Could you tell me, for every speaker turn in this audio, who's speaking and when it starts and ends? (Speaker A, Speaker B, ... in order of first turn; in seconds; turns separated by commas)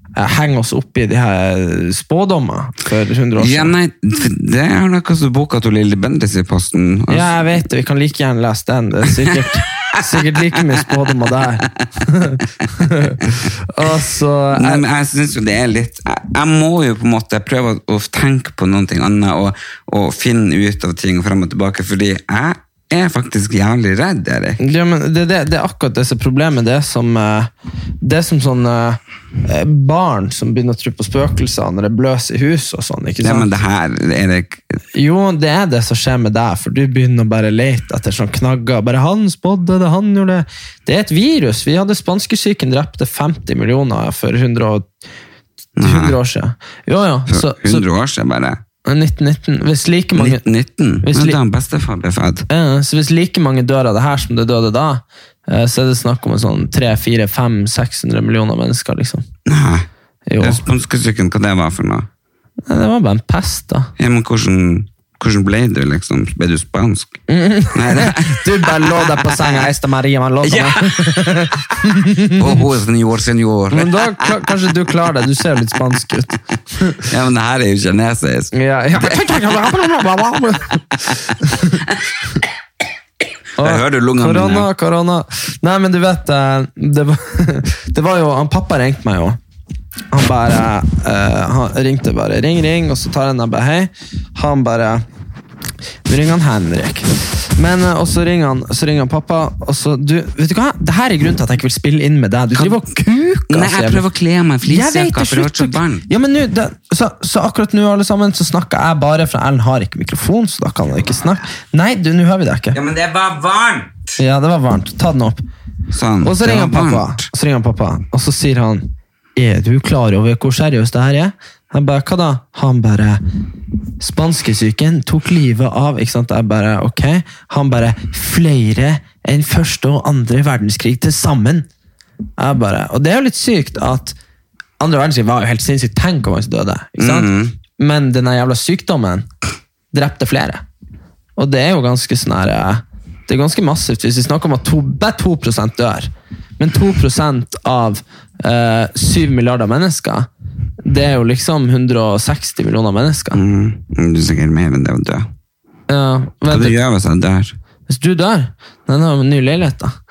Speaker A: 0.2-3.7, Speaker B: 3.4-7.4, Speaker A: 7.1-14.8, Speaker B: 9.3-10.4, Speaker B: 14.5-24.6, Speaker A: 24.6-33.5, Speaker B: 33.2-34.6, Speaker A: 35.0-44.9, Speaker B: 45.8-46.2, Speaker A: 45.8-47.9, Speaker B: 47.3-48.6, Speaker A: 48.9-50.4, Speaker B: 50.1-52.5, Speaker A: 51.0-51.4, Speaker A: 52.5-59.2, Speaker B: 59.5-59.9, Speaker A: 60.3-60.6, Speaker B: 60.4-62.1, Speaker A: 62.7-63.9, Speaker B: 64.0-67.2, Speaker A: 67.3-72.5, Speaker B: 67.7-69.6, Speaker B: 70.4-74.5, Speaker A: 73.7-77.0, Speaker B: 77.0-79.6, Speaker A: 78.5-81.8, Speaker B: 83.6-84.7, Speaker A: 83.6-89.4, Speaker A: 90.1-95.0, Speaker A: 96.1-104.0, Speaker B: 102.5-102.8, Speaker B: 103.5-106.1, Speaker A: 104.7-112.8, Speaker B: 112.7-114.2, Speaker A: 114.2-115.4, Speaker B: 115.9-117.3, Speaker A: 116.2-123.2, Speaker A: 124.0-131.7, Speaker A: 132.4-134.2, Speaker A: 134.8-139.3, Speaker B: 137.0-137.6, Speaker A: 139.9-140.6, Speaker A: 141.4-150.3, Speaker A: 150.8-153.4, Speaker B: 153.3-155.3, Speaker A: 155.9-156.8, Speaker B: 156.5-157.6, Speaker A: 157.9-160.0